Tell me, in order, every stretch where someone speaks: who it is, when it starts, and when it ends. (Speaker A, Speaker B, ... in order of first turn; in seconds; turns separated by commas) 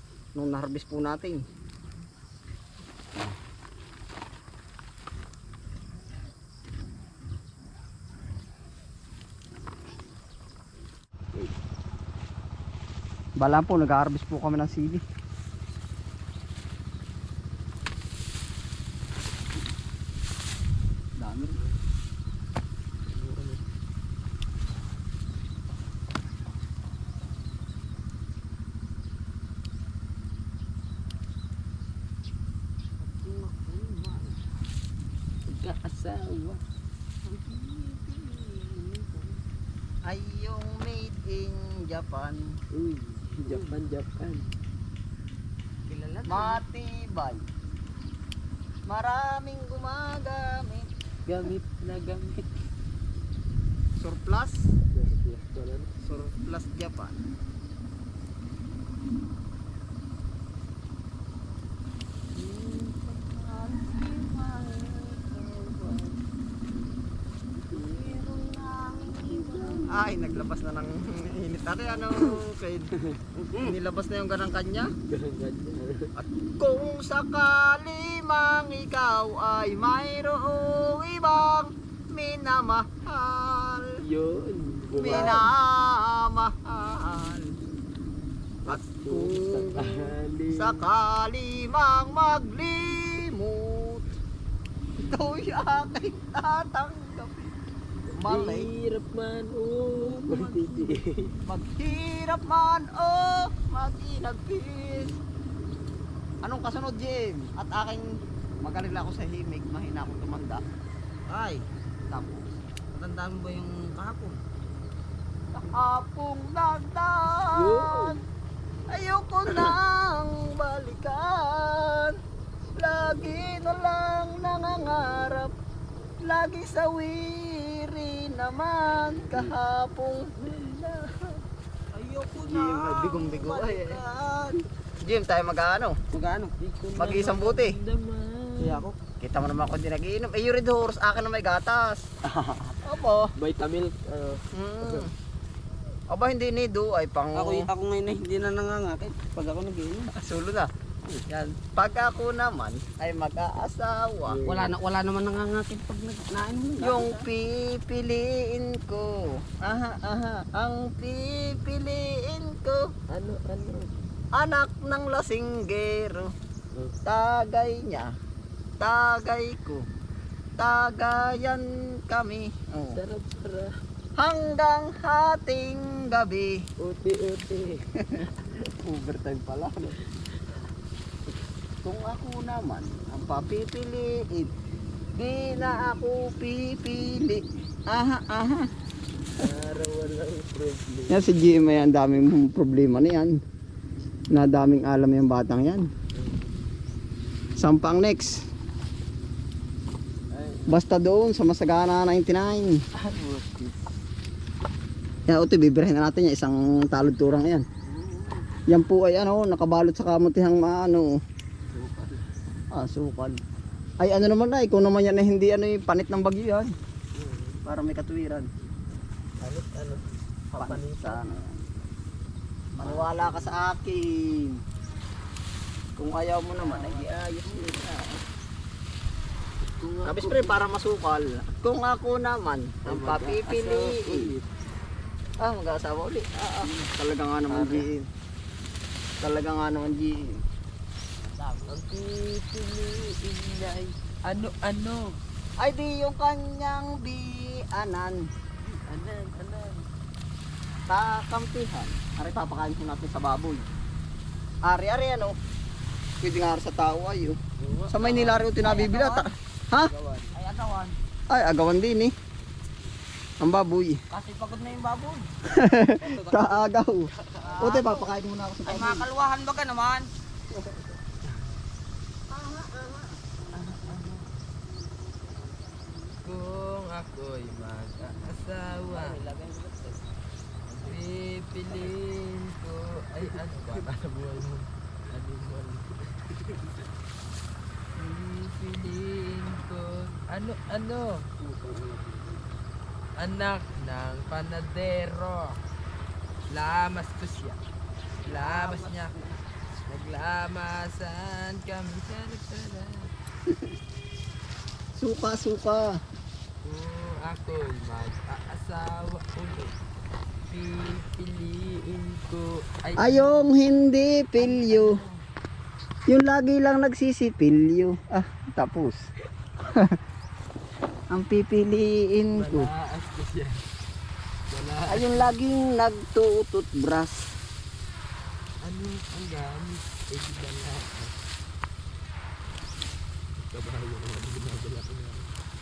Speaker A: 0.3-1.4, Speaker A: 13.4-15.0, Speaker A: 21.2-21.6, Speaker B: 23.1-23.6, Speaker C: 33.0-34.4, Speaker B: 35.5-36.6, Speaker C: 37.2-39.4, Speaker A: 40.0-42.6, Speaker B: 42.7-44.5, Speaker C: 43.2-43.8, Speaker C: 45.9-46.6, Speaker A: 46.3-47.4, Speaker A: 48.9-50.9, Speaker B: 51.3-52.5, Speaker A: 54.0-54.6, Speaker B: 54.9-55.9, Speaker A: 56.0-57.2, Speaker C: 62.4-66.2, Speaker C: 67.7-70.3, Speaker A: 69.8-72.9, Speaker C: 73.4-73.7, Speaker A: 73.6-74.9, Speaker B: 75.1-76.1, Speaker A: 76.2-83.9, Speaker B: 84.0-85.5, Speaker A: 84.9-87.5, Speaker C: 85.0-85.5, Speaker B: 88.7-90.8, Speaker A: 88.7-89.9, Speaker A: 90.5-94.1, Speaker A: 95.0-97.5, Speaker A: 98.2-98.7, Speaker B: 98.2-101.3, Speaker C: 100.2-100.8, Speaker A: 101.5-105.1, Speaker A: 106.4-108.0, Speaker A: 108.6-110.6, Speaker C: 111.3-111.7, Speaker A: 112.1-112.6, Speaker C: 112.9-114.4, Speaker A: 115.5-118.2, Speaker C: 117.5-118.2, Speaker A: 118.9-122.1, Speaker A: 122.8-125.5, Speaker A: 126.2-131.0, Speaker C: 131.9-134.0, Speaker A: 132.3-135.9, Speaker C: 136.1-137.3, Speaker A: 137.0-137.8, Speaker B: 137.0-138.9, Speaker C: 138.6-139.0, Speaker A: 139.2-142.0, Speaker B: 142.3-142.8, Speaker A: 142.8-143.3, Speaker B: 143.4-145.1, Speaker A: 144.5-145.1, Speaker A: 146.1-147.7, Speaker C: 147.3-150.1, Speaker A: 150.2-150.7, Speaker A: 151.3-154.4, Speaker C: 154.3-157.3, Speaker B: 154.3-154.8, Speaker A: 156.8-162.9, Speaker B: 163.1-163.9, Speaker A: 164.3-166.3, Speaker A: 167.1-168.1, Speaker A: 168.8-169.8, Speaker A: 170.6-173.0, Speaker B: 172.9-173.7, Speaker A: 174.2-176.6, Speaker B: 176.8-177.8, Speaker A: 178.1-179.9, Speaker A: 181.8-184.5, Speaker A: 185.1-188.7, Speaker B: 189.4-191.3, Speaker A: 191.1-193.3, Speaker A: 194.3-195.8, Speaker B: 196.1-196.4, Speaker A: 197.6-198.4, Speaker B: 200.3-200.8, Speaker A: 200.7-202.7, Speaker B: 203.0-203.8, Speaker A: 205.3-207.7, Speaker C: 208.0-208.3, Speaker A: 208.7-211.1, Speaker B: 211.7-212.2, Speaker A: 212.7-213.4, Speaker A: 214.0-216.7, Speaker B: 217.1-217.6, Speaker A: 217.7-218.5, Speaker B: 219.4-221.2, Speaker A: 220.6-221.6, Speaker A: 222.8-224.6, Speaker B: 222.8-223.7, Speaker A: 226.0-228.2, Speaker C: 226.6-227.7, Speaker B: 229.8-230.5, Speaker A: 230.0-234.2, Speaker B: 232.8-234.4, Speaker A: 235.4-238.1, Speaker B: 237.5-237.9, Speaker A: 239.2-240.4, Speaker C: 241.2-241.8, Speaker B: 241.7-245.1, Speaker A: 245.6-248.2, Speaker B: 248.6-249.9, Speaker A: 250.9-253.7, Speaker A: 254.7-255.3, Speaker A: 256.2-257.4, Speaker B: 257.6-258.7, Speaker A: 257.9-259.9, Speaker C: 258.6-259.3, Speaker C: 259.9-261.0, Speaker A: 261.3-262.1, Speaker A: 263.4-264.0, Speaker C: 264.1-265.3, Speaker A: 265.5-269.1, Speaker C: 266.0-266.7, Speaker C: 267.4-268.1, Speaker B: 267.4-267.8, Speaker C: 268.6-270.7, Speaker A: 272.3-273.1, Speaker B: 273.5-274.2, Speaker B: 276.2-279.2, Speaker C: 278.9-280.0, Speaker C: 280.7-281.1, Speaker B: 280.8-286.0, Speaker C: 281.7-282.0, Speaker C: 283.3-283.9, Speaker C: 286.3-286.7, Speaker B: 288.0-291.2, Speaker C: 291.4-292.5, Speaker B: 293.2-295.6, Speaker B: 296.5-297.6, Speaker B: 298.2-299.2, Speaker C: 298.3-299.4, Speaker B: 299.9-303.1, Speaker A: 305.0-305.9, Speaker B: 306.6-309.7, Speaker B: 310.5-313.5, Speaker A: 313.0-314.9, Speaker B: 314.5-315.1, Speaker A: 316.1-319.0, Speaker A: 321.1-322.7, Speaker B: 322.4-323.6, Speaker B: 324.5-325.3, Speaker A: 324.9-327.3, Speaker B: 328.6-331.1, Speaker B: 333.4-335.3